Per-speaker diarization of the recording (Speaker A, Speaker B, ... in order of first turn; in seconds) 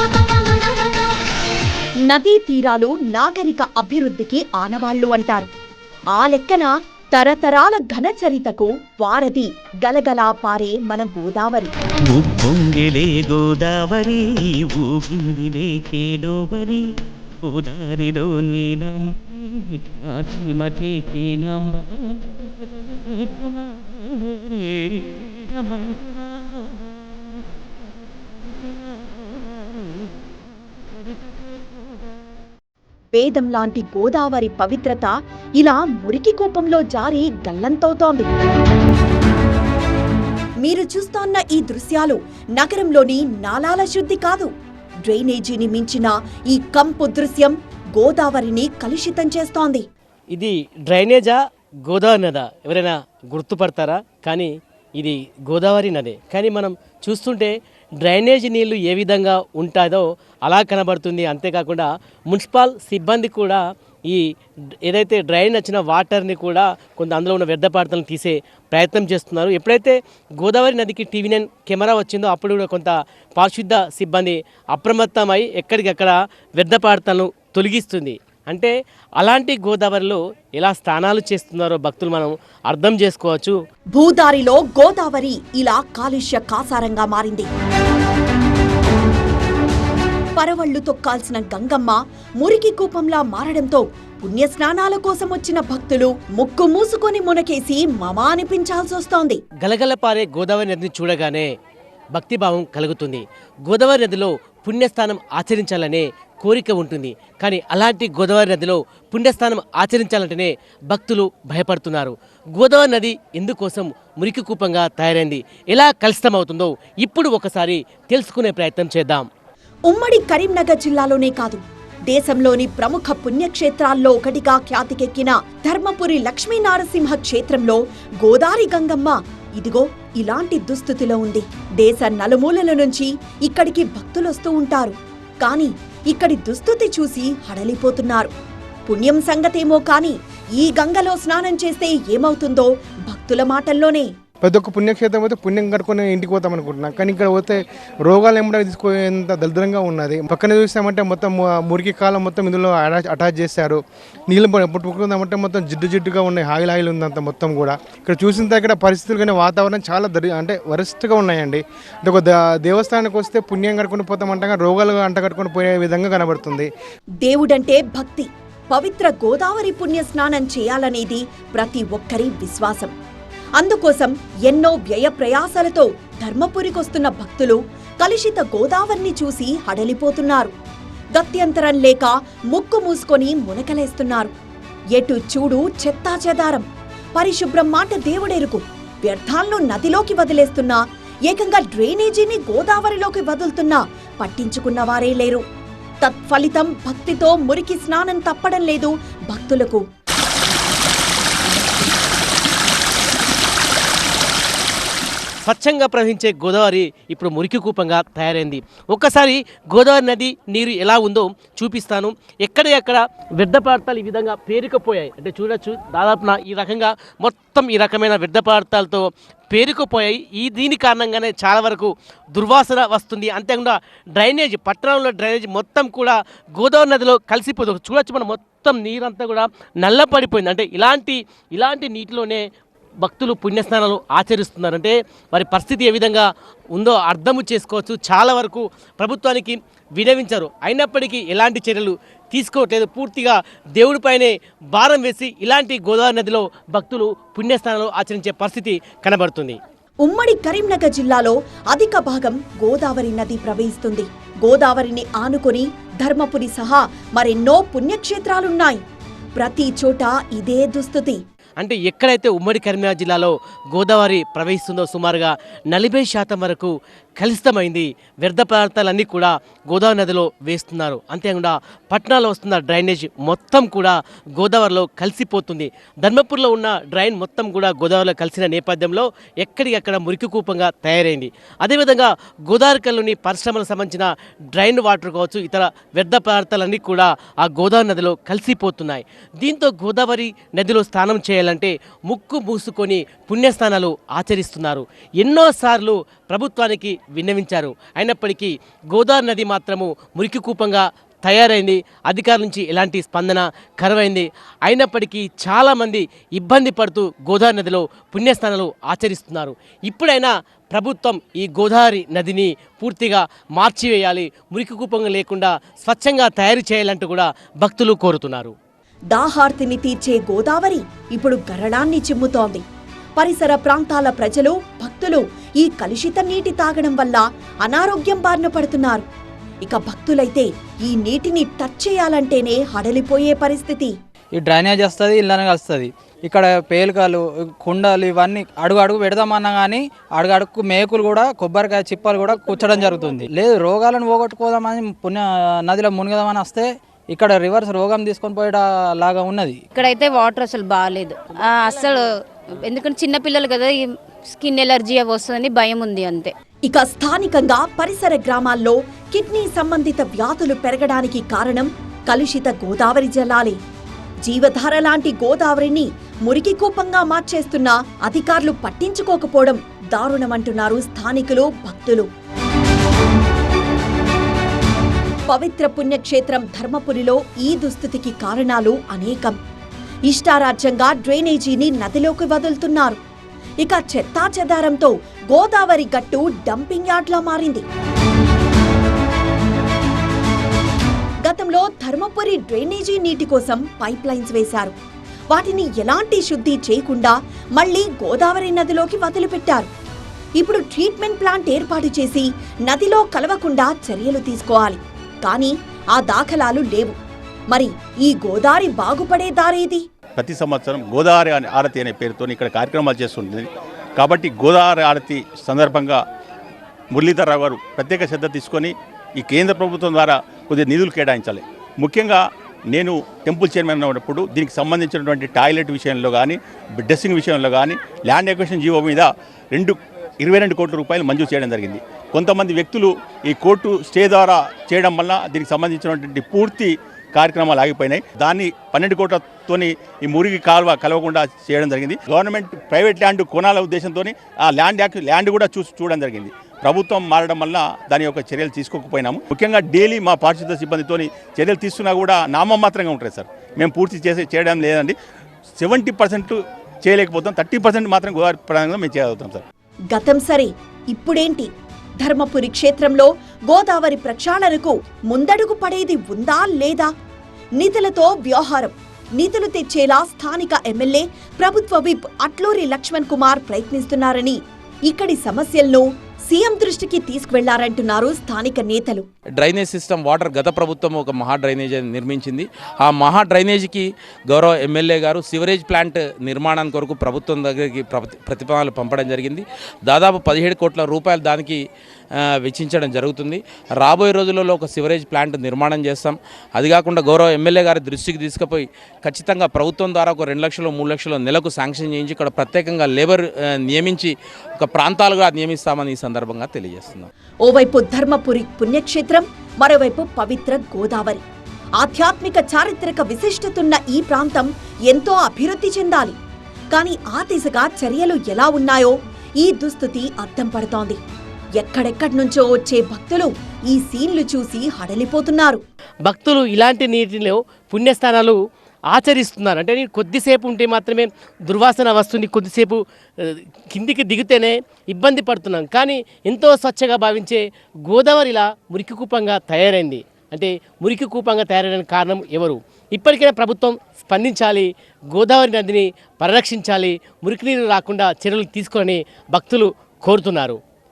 Speaker A: 2.0-5.5, 6.1-11.7, 33.1-38.3, 40.6-44.5, 45.0-49.9, 83.9-87.5, 90.4-99.4, 119.9-138.3, 138.9-144.1, 167.2-172.9, 173.6-180.5, 181.2-184.3, 184.9-195.4, 196.0-199.8, 250.0-258.8, 259.4-261.2, 319.1-322.6, 323.2-329.0, 329.6-333.9, 356.7-363.6, 364.2-372.1, 375.3-379.4, 380.1-383.0, 383.6-387.6, 391.2-394.7, 395.3-399.7, 400.4-406.9, 407.5-409.8, 459.9-461.5, 462.0-466.9, 467.6-479.1, 507.4-511.2, 511.8-516.1, 516.7-521.0, 521.6-525.6
Speaker B: 12.0-22.2, 24.5-25.8
Speaker C: 50.3-64.2, 64.8-83.5, 99.6-101.5, 102.1-119.2, 205.4-232.4, 233.0-249.6, 261.6-318.5, 526.0-528.4, 528.9-550.6
Speaker D: 144.4-166.7
Speaker E: 334.3-349.6
Speaker F: 349.7-356.3
Speaker G: 410.1-416.0, 416.9-454.9, 455.6-459.4
Speaker H: 479.4-491.6, 492.1-507.1